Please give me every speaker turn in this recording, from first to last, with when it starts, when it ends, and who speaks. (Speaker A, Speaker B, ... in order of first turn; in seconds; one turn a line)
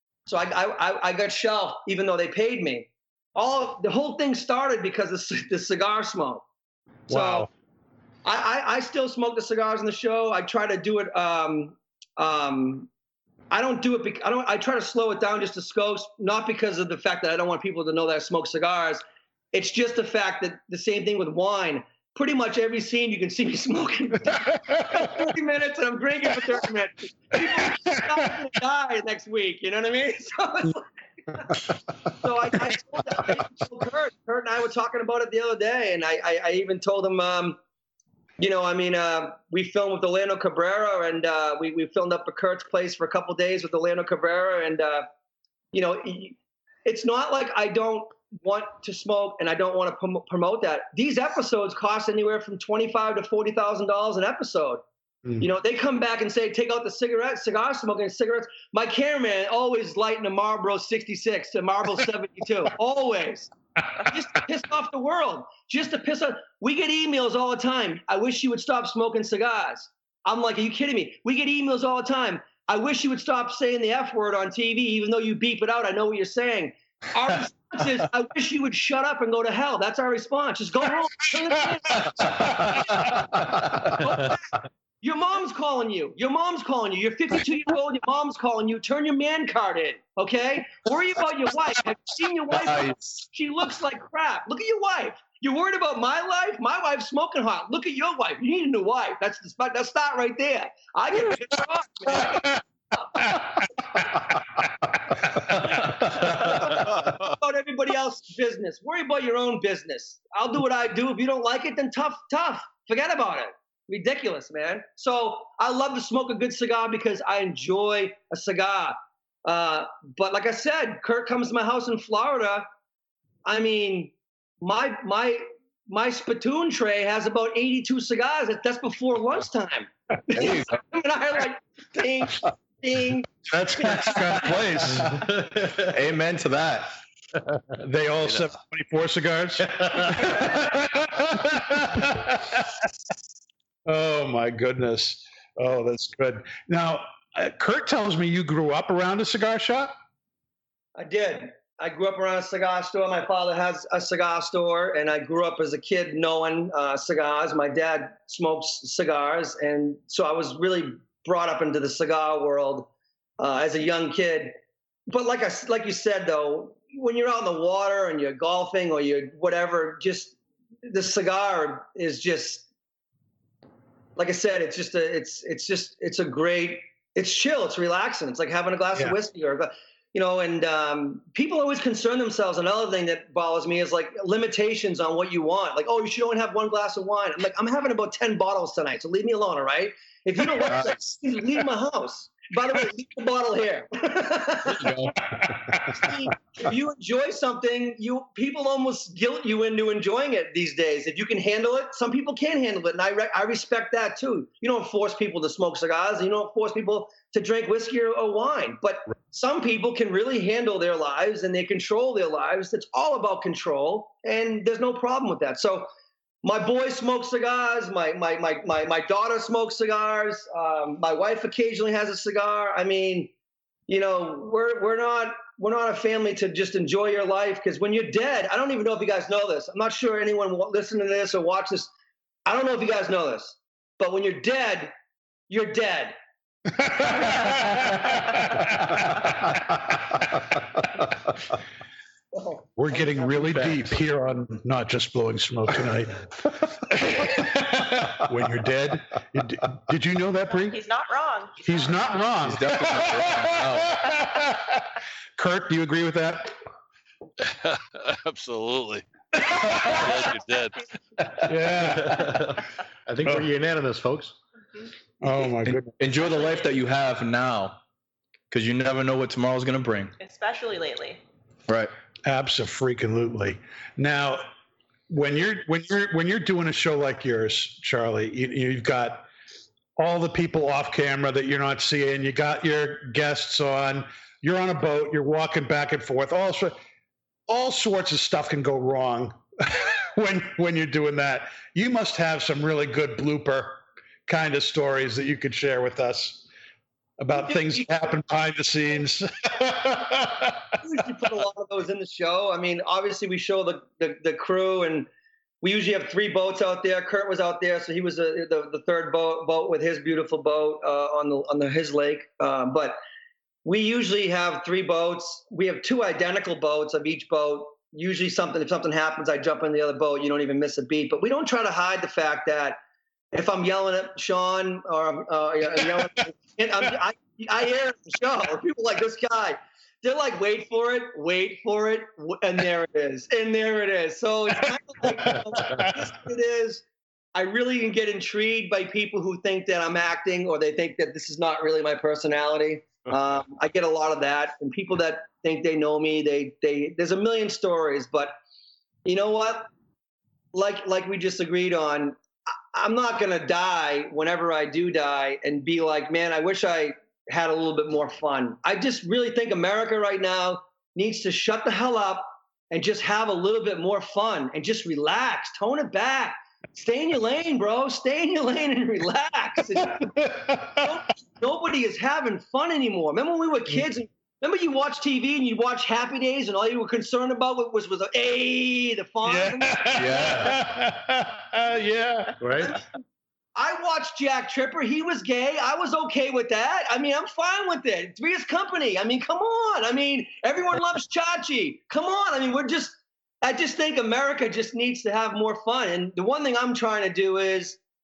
Speaker A: 0.3-6.4
Speaker A: 7.1-7.5
Speaker B: 7.1-7.5
Speaker A: 8.2-12.9
Speaker A: 13.5-37.6
Speaker B: 24.7-25.3
Speaker B: 27.4-28.3
Speaker A: 38.4-45.0
Speaker A: 45.7-54.8
Speaker A: 55.4-82.1
Speaker B: 82.2-83.2
Speaker C: 82.4-83.2
Speaker A: 84.0-84.4
Speaker A: 85.0-103.2
Speaker C: 92.6-93.0
Speaker B: 102.1-102.6
Speaker B: 103.2-104.0
Speaker A: 106.2-122.7
Speaker A: 123.5-133.3
Speaker C: 130.3-130.7
Speaker B: 133.5-135.2
Speaker C: 133.8-136.9
Speaker B: 137.8-142.8
Speaker B: 143.8-149.9
Speaker A: 150.9-162.9
Speaker A: 163.4-164.5
Speaker A: 165.1-170.3
Speaker A: 170.8-172.7
Speaker A: 174.2-194.9
Speaker C: 190.6-191.0
Speaker C: 194.7-195.8
Speaker A: 195.9-215.9
Speaker A: 216.4-223.3
Speaker A: 223.9-231.9
Speaker A: 232.4-234.9
Speaker A: 235.5-236.2
Speaker B: 236.8-239.1
Speaker A: 242.3-243.3
Speaker B: 242.8-246.2
Speaker B: 246.9-250.8
Speaker D: 250.7-251.6
Speaker B: 251.6-256.6
Speaker C: 252.4-254.0
Speaker E: 257.4-259.0
Speaker B: 259.3-260.1
Speaker E: 259.7-260.9
Speaker B: 261.4-262.5
Speaker F: 262.1-264.4
Speaker B: 265.2-265.9
Speaker C: 265.6-267.8
Speaker C: 268.5-270.1
Speaker D: 270.2-271.2
Speaker B: 272.2-274.4
Speaker B: 275.1-279.2
Speaker B: 280.0-286.8
Speaker B: 287.5-296.4
Speaker B: 297.2-300.7
Speaker A: 297.3-298.1
Speaker A: 300.8-305.1
Speaker A: 305.6-313.0
Speaker A: 313.6-322.8
Speaker A: 323.3-336.8
Speaker B: 335.3-335.9
Speaker A: 337.3-348.3
Speaker A: 349.0-349.7
Speaker A: 350.5-352.2
Speaker A: 352.7-370.1
Speaker B: 369.8-370.9
Speaker A: 370.7-379.8
Speaker B: 379.2-382.4
Speaker C: 379.9-380.6
Speaker F: 382.4-382.8
Speaker A: 382.6-383.0
Speaker A: 383.6-397.8